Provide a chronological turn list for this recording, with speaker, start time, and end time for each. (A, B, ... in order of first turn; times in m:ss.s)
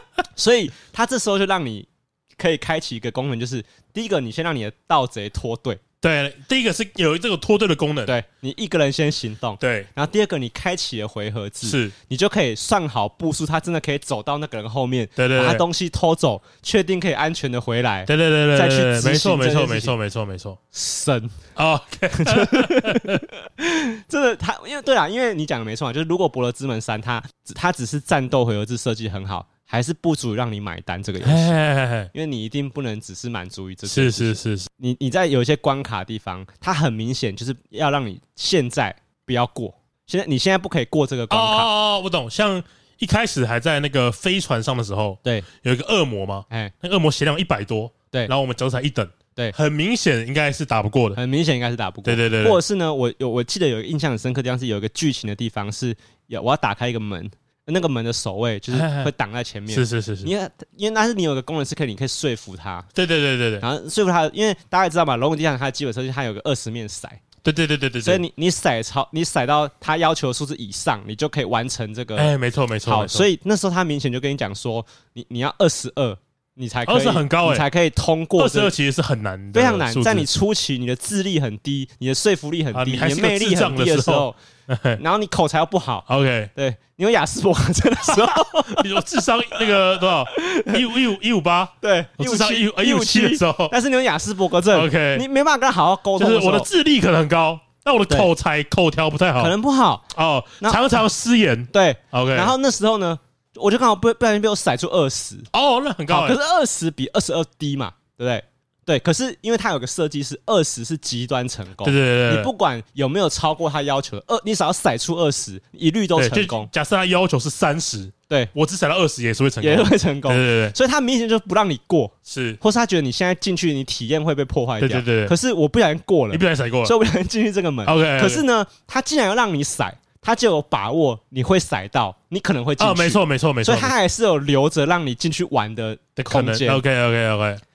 0:00.4-0:05.8 A
0:06.0-0:08.2 B
0:08.1-0:19.9 A
0:09.6-0:09.9 B
0:11.6-0:11.9 B
0:15.2-0:15.6 B
0:18.1-0:20.6 B
0:20.7-0:21.4 A
0:21.6-0:23.2 B
0:22.1-0:31.6 A
0:31.2-0:32.1 B
0:32.1-0:41.7 A
0:33.9-0:34.7 B
0:41.3-0:51.2 B
0:51.2-1:02.9 A
0:52.0-0:52.6 B
0:58.7-0:59.1 B
0:59.7-1:00.3 B
1:03.0-1:03.6 B
1:03.6-1:07.2 A
1:07.4-1:08.2 B
1:08.0-1:12.3 A
1:12.2-1:13.3 B
1:12.8-1:18.7 A
1:16.9-1:17.7 B
1:18.4-1:20.3 B
1:19.5-1:24.4 A
1:22.7-1:25.0 B
1:25.0-1:29.8 A
1:26.1-1:26.5 B
1:28.6-1:33.7 B
1:30.3-1:30.8 A
1:31.8-1:36.7 A
1:34.7-1:35.2 B
1:36.2-1:39.5 B
1:39.4-1:40.1 A
1:40.1-1:42.5 B
1:41.7-1:45.5 A
1:45.5-1:46.4 B
1:46.1-1:56.7 A
1:51.8-1:52.5 B
1:56.2-2:00.8 B
1:59.6-2:16.8 A
2:02.3-2:02.6 B
2:04.8-2:05.3 B
2:06.3-2:06.9 B
2:07.8-2:08.4 B
2:12.8-2:14.0 B
2:16.2-2:17.6 B